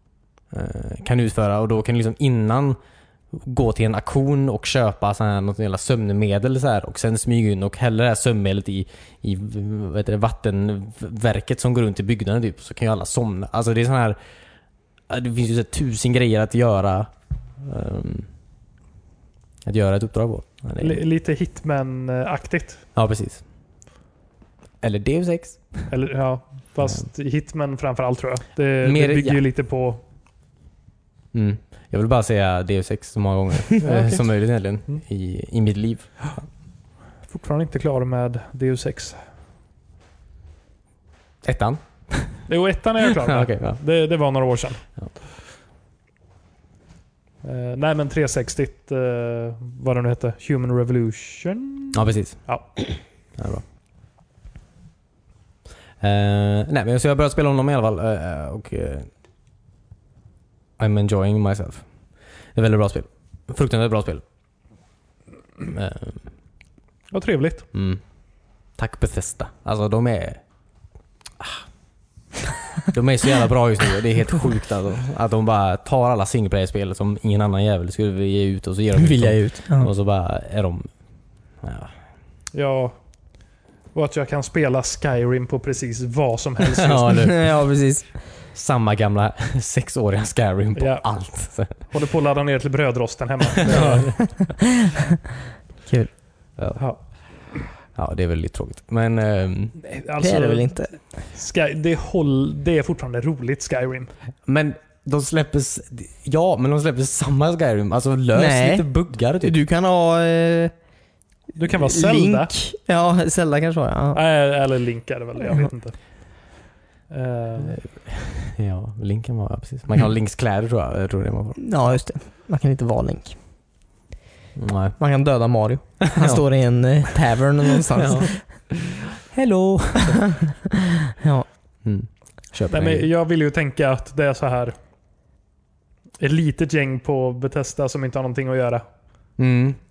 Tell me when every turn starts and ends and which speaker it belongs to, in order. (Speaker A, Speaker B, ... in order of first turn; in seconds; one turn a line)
Speaker A: 0.5-2.8
Speaker A: 3.3-14.2
Speaker A: 15.1-17.1
Speaker A: 17.6-18.3
Speaker A: 19.6-21.0
Speaker B: 20.8-22.8
Speaker A: 23.0-23.4
Speaker A: 24.8-25.9
Speaker B: 25.9-30.0
Speaker A: 28.8-29.4
Speaker A: 31.3-36.4
Speaker B: 33.8-34.3
Speaker B: 37.3-39.2
Speaker A: 41.4-42.5
Speaker B: 42.5-44.8
Speaker A: 43.3-43.8
Speaker B: 47.4-52.7
Speaker A: 51.9-52.8
Speaker A: 53.4-53.6
Speaker A: 56.0-59.1
Speaker A: 60.8-61.9
Speaker A: 62.5-64.2
Speaker A: 65.7-66.3
Speaker B: 67.1-67.7
Speaker A: 67.7-68.0
Speaker A: 68.8-70.4
Speaker A: 71.4-71.6
Speaker A: 72.8-80.9
Speaker C: 79.0-79.9
Speaker A: 81.6-81.9
Speaker B: 82.5-83.0
Speaker B: 83.9-87.2
Speaker A: 86.7-87.5
Speaker C: 87.1-88.1
Speaker A: 88.5-91.8
Speaker B: 90.8-91.1
Speaker B: 91.9-94.2
Speaker A: 93.7-94.2
Speaker B: 96.8-97.0
Speaker A: 97.5-99.8
Speaker B: 99.8-104.1
Speaker C: 100.2-100.9
Speaker A: 104.5-109.6
Speaker C: 108.3-110.7
Speaker B: 111.5-112.5
Speaker C: 111.7-114.2
Speaker B: 114.1-116.0
Speaker B: 117.1-117.8
Speaker A: 117.7-121.8
Speaker C: 121.6-123.4
Speaker A: 124.6-125.0
Speaker C: 125.0-128.4
Speaker A: 126.0-126.4
Speaker A: 127.8-130.3
Speaker C: 131.2-131.5
Speaker A: 131.8-133.1
Speaker B: 132.7-134.8
Speaker B: 136.2-138.8
Speaker A: 139.4-139.8